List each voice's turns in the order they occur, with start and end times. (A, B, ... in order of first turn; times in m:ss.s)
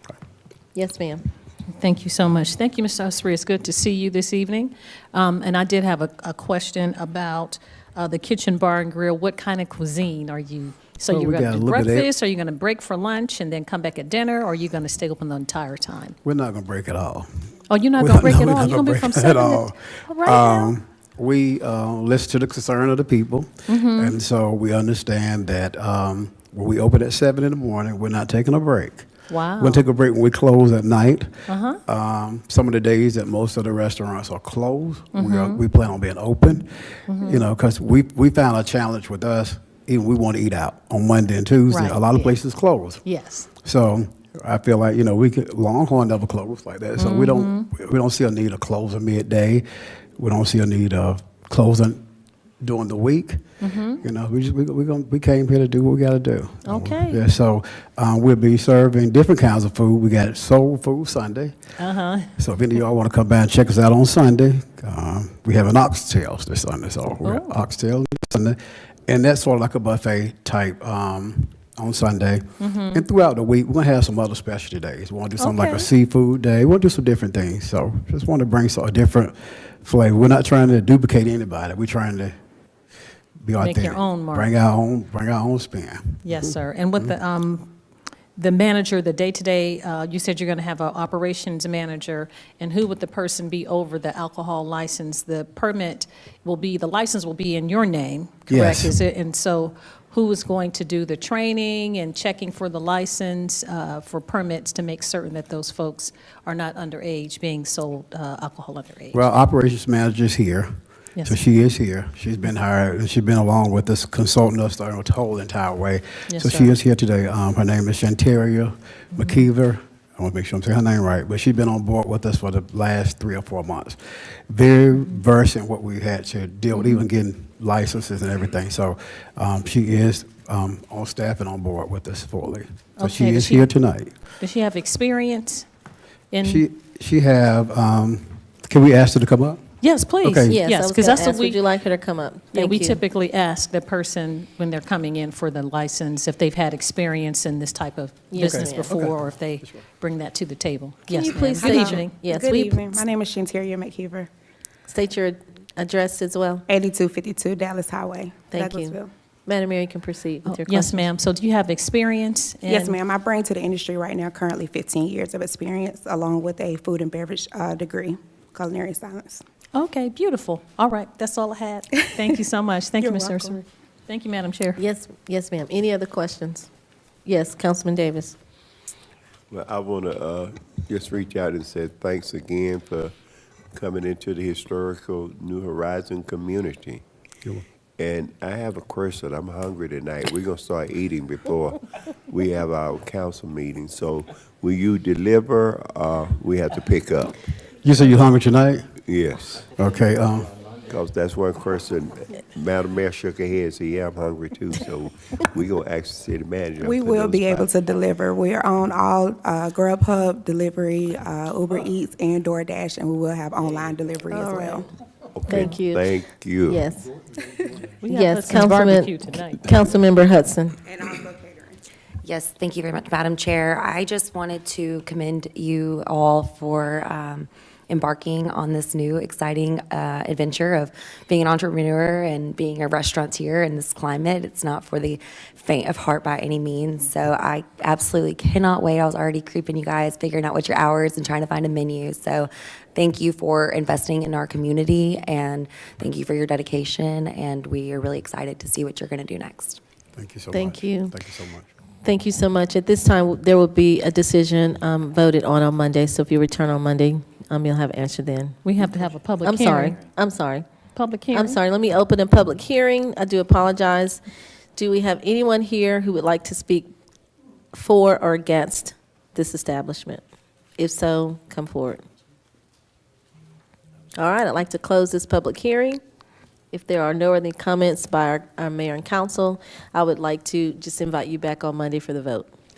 0:00.7-0:01.2 A
0:01.7-0:16.2 B
0:11.1-0:12.1 C
0:16.2-0:17.3 C
0:17.7-0:20.7 B
0:18.0-0:43.0 C
0:23.7-0:24.1 B
0:29.3-0:29.8 B
0:31.5-0:31.8 B
0:35.1-0:35.6 B
0:37.1-0:37.4 B
0:41.7-0:42.2 B
0:43.0-0:43.5 B
0:43.6-0:49.6 C
0:47.0-0:47.7 B
0:50.2-0:52.0 C
0:52.6-0:53.4 C
0:53.6-0:54.0 B
0:54.0-1:01.6 C
0:56.6-0:57.2 B
1:01.8-1:02.3 B
1:02.4-1:22.3 C
1:07.2-1:07.5 B
1:12.6-1:13.0 B
1:15.4-1:15.8 B
1:23.4-1:26.4 C
1:23.6-1:24.5 B
1:26.2-1:27.7 B
1:28.4-1:49.2 B
1:38.5-1:39.0 C
1:49.1-1:50.7 C
1:51.2-2:14.1 C
1:56.3-1:56.7 B
2:13.0-2:13.7 B
2:14.4-2:15.6 B
2:16.3-2:16.6 B
2:16.4-2:19.6 C
2:19.8-2:21.6 B
2:20.2-2:20.6 C
2:20.5-2:23.0 A
2:22.5-2:32.2 B
2:28.3-2:28.9 A
2:28.4-2:29.8 C
2:31.1-2:33.0 A
2:31.2-2:34.3 D
2:34.9-2:36.6 A
2:36.7-2:39.1 D
2:38.5-2:41.1 A
2:40.4-2:43.0 B
2:42.6-2:49.4 D
2:49.7-2:54.8 B
2:51.9-2:52.3 D
2:53.0-2:53.6 D
2:54.8-2:56.7 A
2:57.2-2:58.4 A
2:59.5-3:03.1 E
3:03.7-3:07.0 E
3:08.0-3:17.4 E
3:17.8-3:18.9 C
3:19.0-3:19.7 E
3:19.7-3:20.5 C
3:20.9-3:27.7 E
3:26.8-3:34.9 D
3:34.4-3:34.7 A
3:35.3-3:36.9 E
3:35.5-3:36.1 A
3:36.7-3:37.1 A
3:38.0-3:39.6 B
3:38.1-3:40.8 A
3:40.8-3:41.8 D
3:42.2-4:09.8 F
4:10.1-4:11.7 C
4:10.5-4:11.1 A
4:12.0-4:18.7 A
4:18.6-4:20.0 B
4:19.4-4:20.7 A
4:20.9-4:21.6 B
4:21.3-4:24.2 A
4:24.8-4:26.9 A
4:27.7-4:30.2 A
4:30.8-4:32.0 A
4:34.2-4:36.0 A
4:36.7-4:42.5 A